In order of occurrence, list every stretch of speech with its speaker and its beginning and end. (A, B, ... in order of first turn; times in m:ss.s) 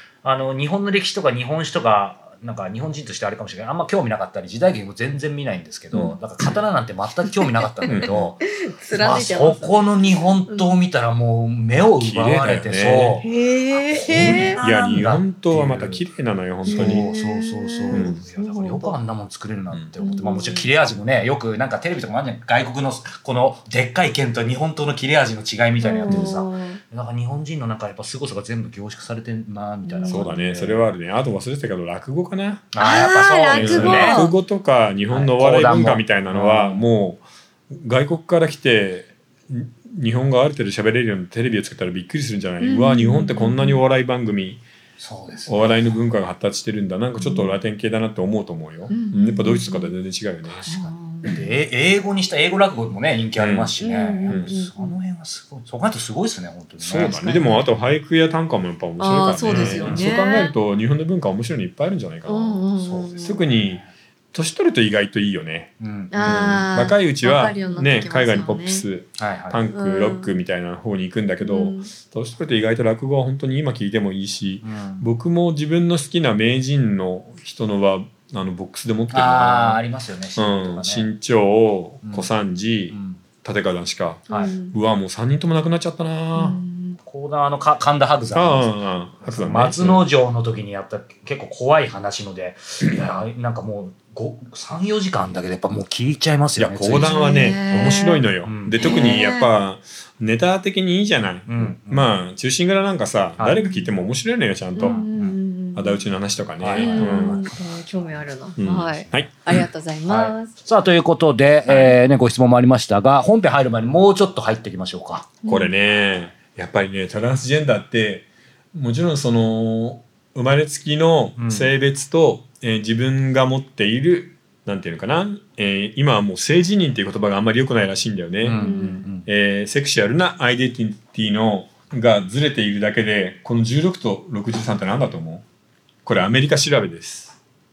0:00.2-0:08.4 A
0:07.8-0:08.3 B
0:07.9-0:10.8 C
0:08.9-0:13.3 A
0:12.0-0:13.2 B
0:13.2-0:14.6 C
0:13.9-0:16.0 A
0:14.1-0:17.1 B
0:16.7-0:19.0 C
0:16.7-0:30.9 A
0:17.9-0:18.2 B
0:20.0-0:20.7 C
0:25.8-0:26.8 C
0:26.1-0:26.4 B
0:29.8-0:30.3 C
0:30.1-0:32.8 B
0:32.7-0:34.3 A
0:32.8-0:34.3 C
0:33.5-0:37.2 B
0:35.1-0:36.8 A
0:37.7-0:44.6 B
0:42.6-0:43.8 C
0:45.0-0:45.9 A
0:45.5-0:50.6 B
0:47.2-0:47.6 C
0:48.9-0:49.9 C
0:50.5-0:57.6 A
0:50.7-0:51.4 C
0:53.4-0:53.8 B
0:53.8-0:55.0 C
0:56.8-1:02.6 B
0:59.0-1:00.5 C
0:59.4-1:00.1 A
1:02.3-1:03.4 C
1:02.8-1:03.9 A
1:03.2-1:19.8 B
1:05.8-1:06.7 A
1:06.1-1:08.8 C
1:09.2-1:09.6 A
1:09.7-1:10.3 C
1:11.4-1:11.9 C
1:14.6-1:15.1 A
1:19.1-1:21.1 A
1:20.4-1:26.6 B
1:22.0-1:22.3 A
1:22.9-1:23.2 A
1:24.3-1:24.8 C
1:26.4-1:27.0 C
1:27.1-1:39.2 A
1:28.3-1:30.1 B
1:36.6-1:45.0 B
1:36.9-1:38.3 C
1:38.8-1:39.6 C
1:41.5-1:42.2 A
1:43.6-1:43.9 C
1:44.8-1:46.0 C
1:44.8-1:45.4 A
1:45.8-1:47.4 B
1:46.6-1:47.5 A
1:46.8-1:50.5 C
1:48.6-1:49.6 B
1:50.1-1:55.3 A
1:51.7-1:51.9 B
1:55.4-1:55.7 C
1:55.5-2:08.7 B
2:01.4-2:01.7 A
2:08.4-2:09.3 A
2:08.6-2:09.1 C
2:09.3-2:15.4 B
2:16.0-2:17.3 B